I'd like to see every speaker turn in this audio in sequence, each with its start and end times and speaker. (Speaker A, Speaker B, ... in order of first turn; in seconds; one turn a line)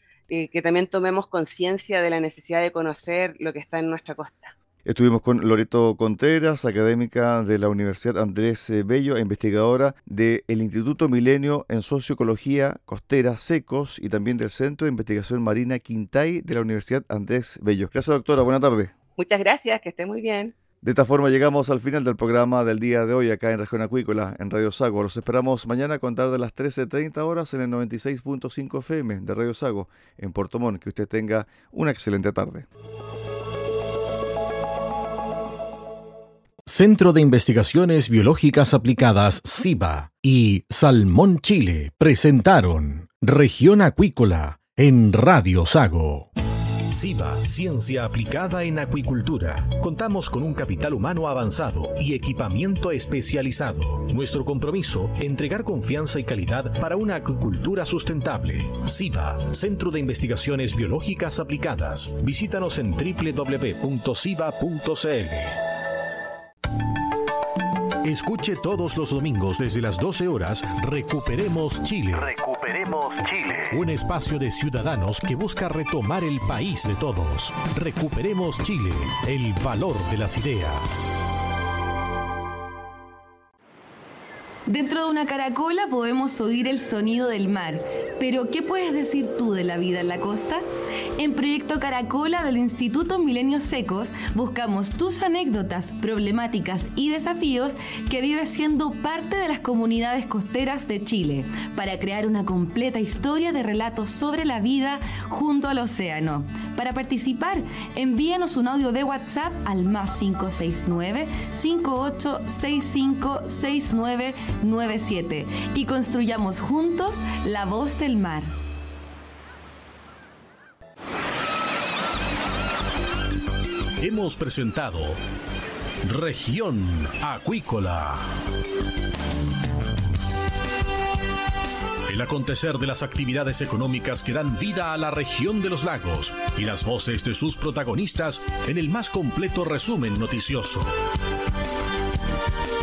Speaker A: 0.3-4.5
Speaker B: 4.8-18.9
Speaker A: 19.2-20.6
Speaker B: 20.8-32.7
Speaker C: 36.7-46.3
Speaker C: 46.9-65.6
Speaker C: 68.0-81.1
Speaker D: 84.7-90.6
Speaker D: 91.2-118.5
Speaker C: 124.0-125.2
Speaker C: 126.0-128.3
Speaker C: 132.1-140.9